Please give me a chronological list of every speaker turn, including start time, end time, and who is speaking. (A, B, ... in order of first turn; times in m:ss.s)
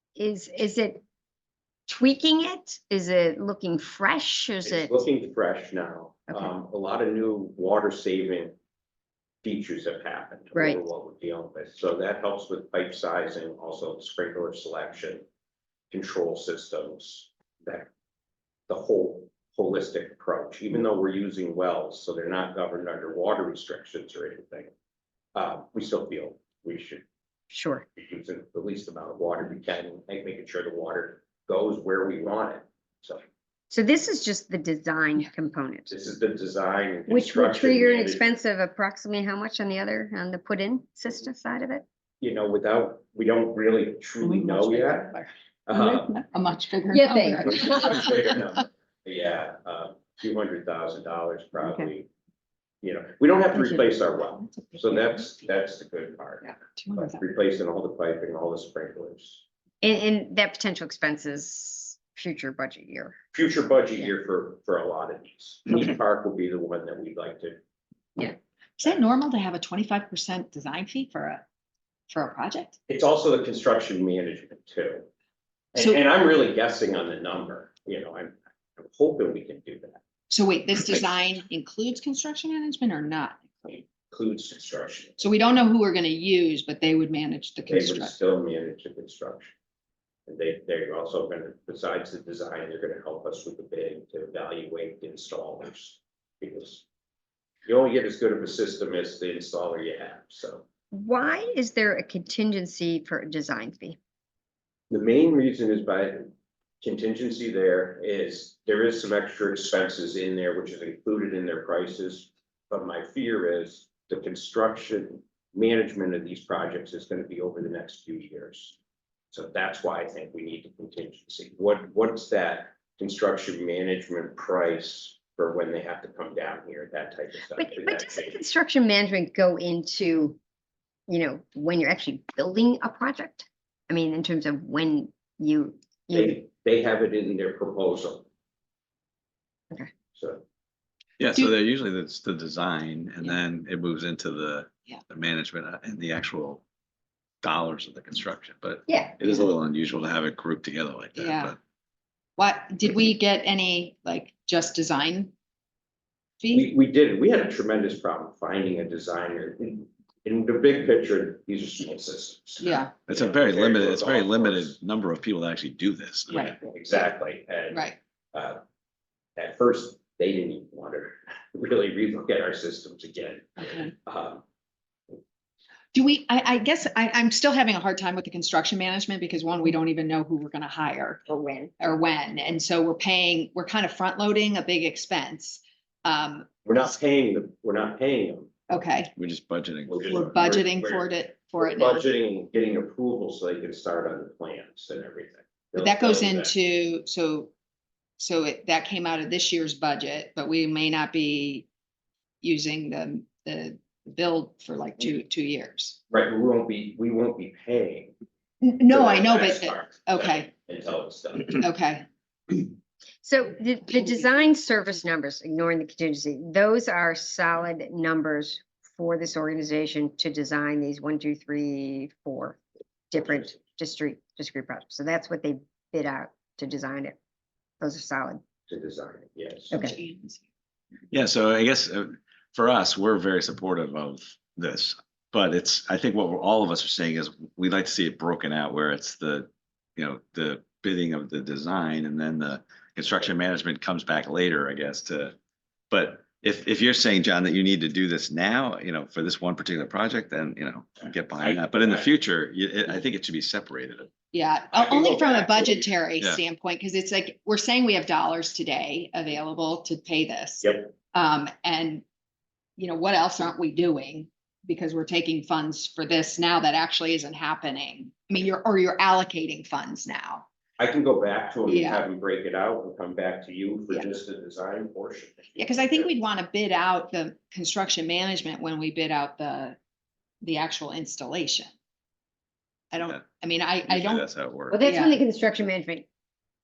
0:00.2-0:01.0 A
0:01.9-0:05.0 A
0:04.6-0:08.6 B
0:09.4-0:15.2 B
0:10.6-0:10.8 A
0:15.9-0:17.9 B
0:18.7-0:24.7 B
0:25.4-0:27.0 B
0:27.5-0:27.9 A
0:28.0-0:33.2 B
0:33.7-0:35.9 A
0:35.9-0:38.3 B
0:37.1-0:41.8 A
0:42.2-0:45.1 B
0:44.2-0:48.4 C
0:45.7-0:46.2 B
0:46.9-0:48.1 A
0:47.5-0:52.1 B
0:52.8-0:59.4 B
0:53.6-0:53.9 C
0:54.4-0:55.2 C
0:56.7-0:57.2 C
0:59.8-1:03.2 A
1:03.3-1:07.6 B
1:08.8-1:11.4 C
1:12.1-1:12.8 C
1:12.9-1:15.1 B
1:15.7-1:20.0 B
1:15.8-1:16.0 C
1:20.3-1:23.8 C
1:23.9-1:25.2 B
1:25.2-1:28.2 C
1:27.7-1:29.5 B
1:30.3-1:36.8 B
1:37.6-1:40.7 B
1:40.9-1:44.0 A
1:44.9-1:58.8 B
1:59.3-2:08.4 B
2:07.6-2:10.4 A
2:11.1-2:16.4 A
2:16.1-2:18.3 B
2:20.1-2:20.4 B
2:21.2-2:26.6 D
2:27.4-2:31.6 D
2:28.9-2:29.5 A
2:31.2-2:31.5 C
2:32.4-2:35.3 C
2:36.4-2:36.7 C
2:36.5-2:44.8 B
2:42.6-2:42.9 C
2:43.1-2:46.4 D
2:46.3-2:48.6 B
2:46.3-2:46.6 C
2:47.7-2:48.0 C
2:49.4-2:54.4 B
2:53.6-2:53.9 C
2:55.9-3:01.2 C
3:01.3-3:01.7 A
3:01.8-3:06.5 C
3:06.6-3:08.6 B
3:08.7-3:09.1 C
3:09.2-3:10.4 D
3:09.9-3:16.5 B
3:10.1-3:12.1 C
3:15.8-3:17.5 C
3:18.2-3:21.7 C
3:22.4-3:26.0 C
3:26.1-3:28.2 B
3:28.6-3:30.5 C
3:28.9-3:31.6 B
3:31.6-3:32.0 C
3:33.2-3:42.6 A
3:43.1-3:47.2 A
3:47.8-3:48.4 A
3:48.7-3:49.8 B
3:49.7-3:50.4 C
3:51.1-4:05.4 D
4:05.9-4:14.1 D
4:11.4-4:12.1 B
4:14.3-4:22.0 C
4:14.7-4:15.9 B
4:20.6-4:20.9 B
4:22.8-4:30.5 C
4:30.8-4:36.1 B
4:31.7-4:32.0 C
4:35.6-4:39.8 C
4:40.4-4:41.7 C
4:42.9-4:44.3 C
4:43.9-4:44.8 D
4:44.7-4:46.1 A
4:44.8-4:45.2 C